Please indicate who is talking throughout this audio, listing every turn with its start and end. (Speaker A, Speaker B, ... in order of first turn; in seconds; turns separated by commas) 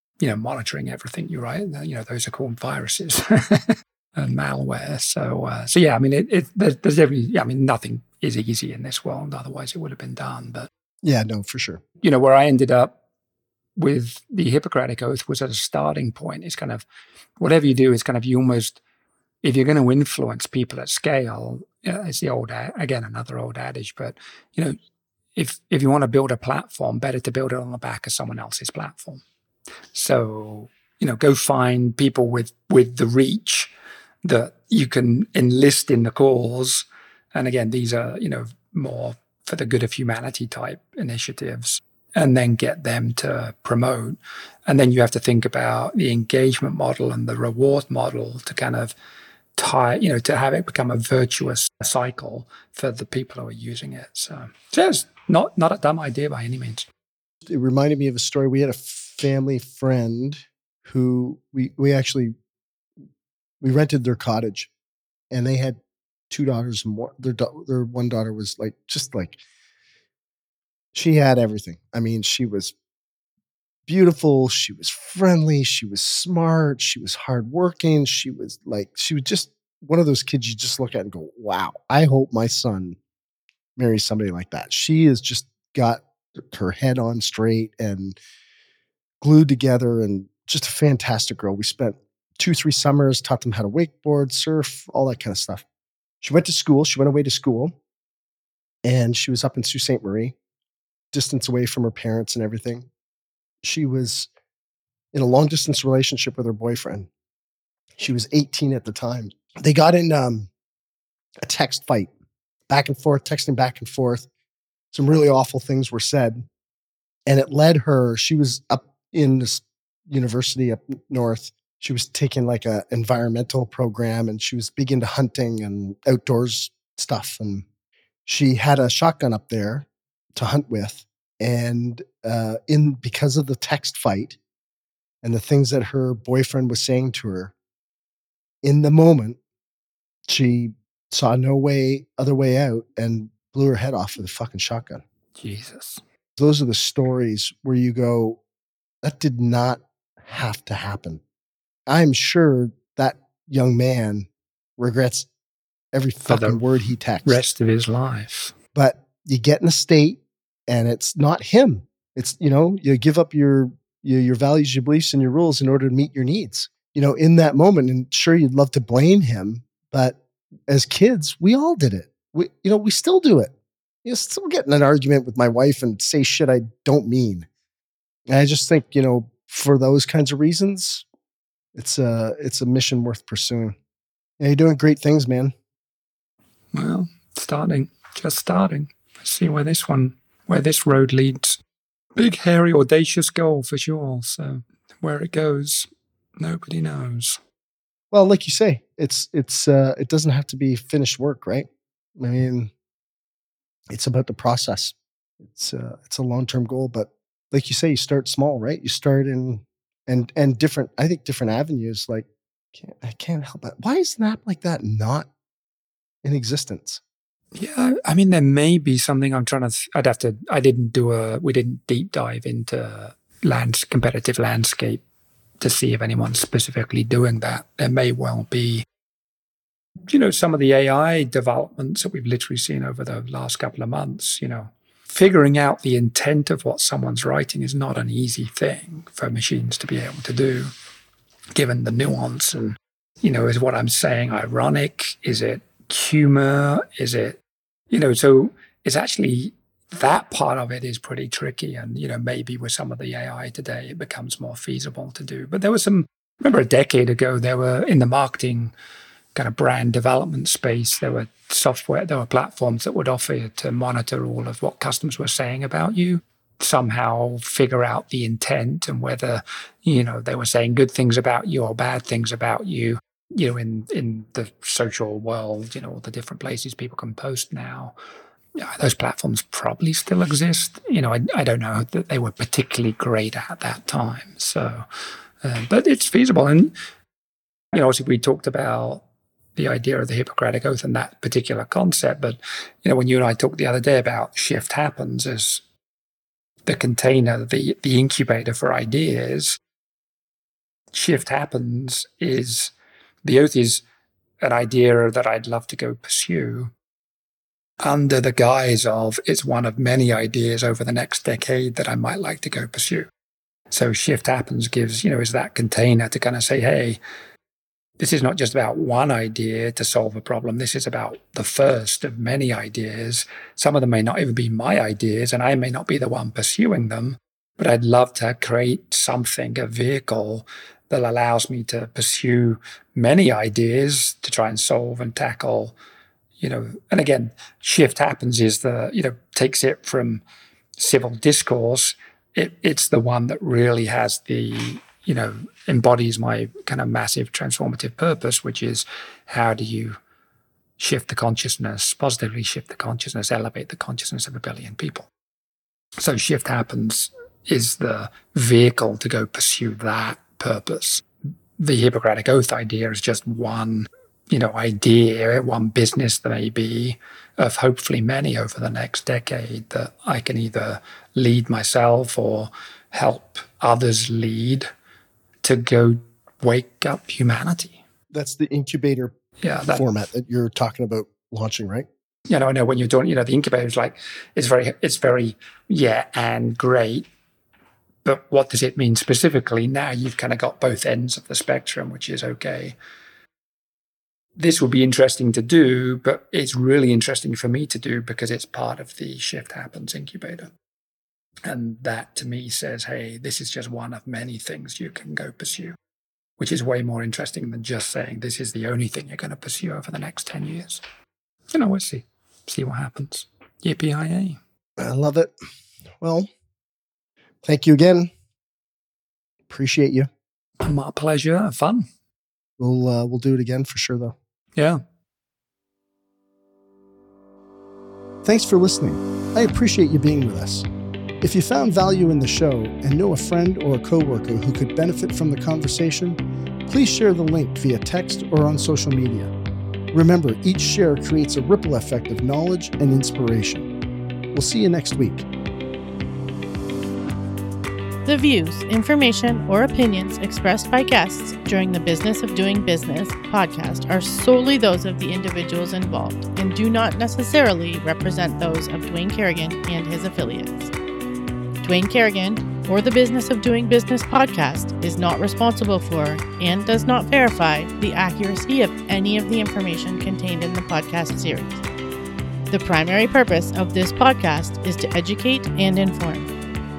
Speaker A: 0.2-10.7, Speaker B: 11.0-11.8, Speaker A: 12.0-12.9, Speaker A: 13.8-16.8, Speaker A: 17.4-18.8, Speaker A: 19.4-24.8, Speaker A: 25.3-29.2, Speaker A: 29.9-33.7, Speaker A: 34.2-48.9, Speaker A: 49.6-56.9, Speaker B: 57.5-62.3, Speaker B: 63.6-64.7, Speaker B: 65.3-65.8, Speaker B: 66.3-69.4, Speaker B: 70.9-72.7, Speaker B: 73.8-83.0, Speaker B: 83.8-88.2, Speaker B: 89.2-95.6, Speaker B: 96.2-97.7, Speaker B: 98.8-100.3, Speaker B: 101.1-102.9, Speaker B: 103.6-104.3, Speaker B: 105.1-107.1, Speaker B: 108.0-110.5, Speaker B: 111.4-112.1, Speaker B: 112.7-114.3, Speaker B: 114.9-116.4, Speaker B: 117.3-127.6, Speaker B: 128.2-134.4, Speaker B: 135.2-137.5, Speaker B: 138.6-139.4, Speaker B: 140.3-145.0, Speaker A: 145.4-146.0, Speaker B: 146.4-148.4, Speaker B: 149.0-151.2, Speaker B: 151.9-154.3, Speaker B: 154.8-155.3, Speaker B: 155.9-157.4, Speaker A: 156.2-156.6, Speaker A: 157.2-158.5, Speaker B: 158.7-173.5, Speaker B: 174.0-177.5, Speaker B: 178.3-181.0, Speaker B: 181.7-183.7, Speaker B: 184.4-185.5, Speaker A: 186.7-191.6, Speaker A: 192.2-197.4, Speaker B: 198.1-202.7, Speaker B: 203.9-215.3, Speaker B: 216.2-217.0, Speaker A: 217.6-225.0, Speaker A: 225.6-228.8, Speaker A: 230.1-240.7, Speaker A: 241.5-247.4, Speaker A: 247.9-258.7, Speaker A: 259.3-277.9, Speaker A: 278.6-284.9, Speaker A: 285.4-286.7, Speaker A: 287.7-289.0, Speaker A: 289.5-295.6, Speaker A: 296.6-299.6, Speaker A: 300.9-303.8, Speaker A: 304.4-306.7, Speaker A: 307.8-313.1, Speaker A: 313.7-317.0, Speaker A: 318.0-335.7, Speaker A: 336.4-340.2, Speaker A: 340.8-350.0, Speaker A: 350.8-355.1, Speaker A: 356.0-361.0, Speaker A: 361.6-374.7, Speaker A: 375.4-377.8, Speaker B: 378.1-379.1, Speaker A: 379.4-379.9, Speaker B: 379.7-381.9, Speaker A: 382.3-387.1, Speaker A: 388.0-392.8, Speaker A: 394.4-400.5, Speaker A: 401.4-405.8, Speaker A: 406.4-410.8, Speaker A: 411.5-414.4, Speaker B: 414.8-415.3, Speaker B: 416.0-416.3, Speaker B: 417.4-418.1, Speaker B: 419.5-420.1, Speaker A: 420.6-421.9, Speaker B: 422.6-424.1, Speaker A: 424.6-424.8, Speaker B: 428.2-430.6, Speaker B: 431.2-439.3, Speaker B: 439.9-443.7, Speaker B: 444.3-445.2, Speaker C: 448.1-460.7, Speaker C: 461.6-471.6, Speaker C: 472.5-476.3